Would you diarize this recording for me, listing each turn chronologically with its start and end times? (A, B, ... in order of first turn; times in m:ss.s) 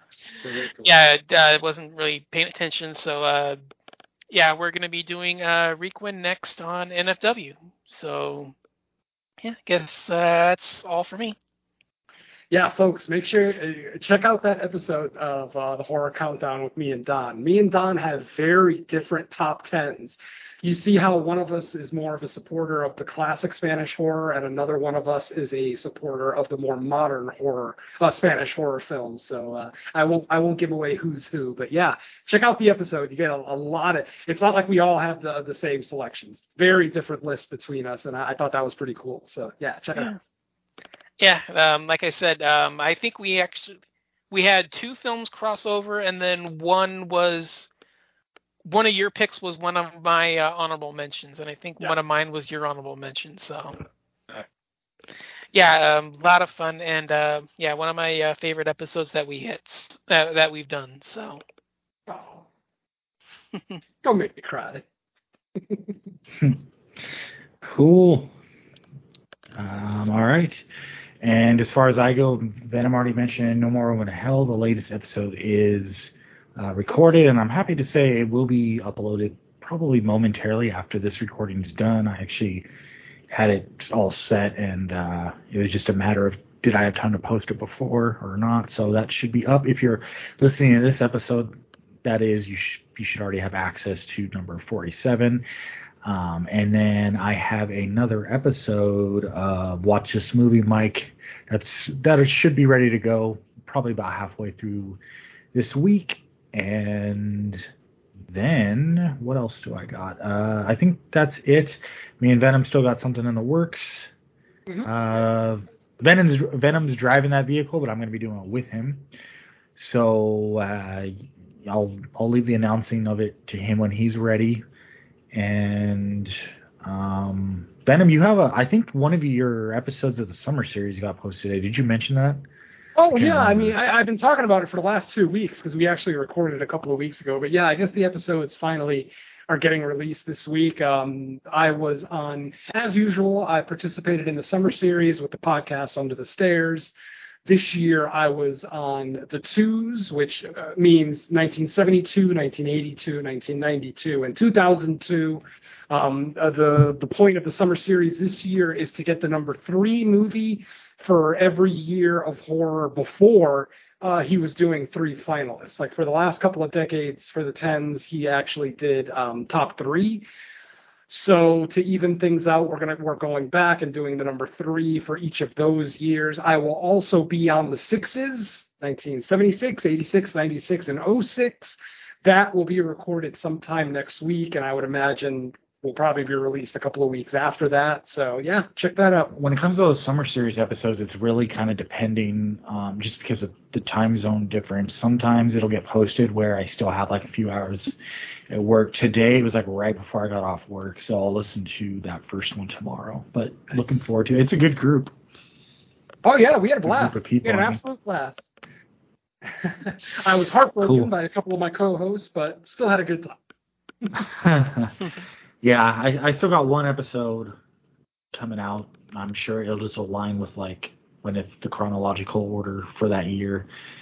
0:00.4-0:00.9 A
0:00.8-0:03.6 B
0:04.3-0:08.5 B
0:09.4-0:11.4 B
0:12.5-0:40.1 A
0:41.2-0:43.8 B
0:44.3-0:47.7 B
0:48.6-0:53.7 B
0:55.5-1:01.4 B
1:02.1-1:02.4 A
1:04.0-1:04.8 A
1:07.6-1:08.3 C
1:09.6-1:10.6 C
1:11.2-1:22.7 C
1:23.3-1:31.5 C
1:32.0-1:35.4 C
1:36.0-1:45.0 C
1:45.5-1:47.7 C
1:48.2-1:54.1 C
1:54.8-1:59.0 C
1:59.8-2:04.6 C
2:05.3-2:12.4 C
2:13.0-2:26.9 A
2:13.1-2:13.7 C
2:27.5-2:50.2 A
2:51.1-3:09.3 A
3:09.3-3:18.0 C
3:18.5-3:25.1 C
3:26.2-3:28.5 A
3:26.8-3:27.8 C
3:29.4-3:33.4 A
3:30.8-3:31.1 C
3:34.2-3:35.0 C
3:35.6-3:37.5 C
3:38.3-3:43.7 C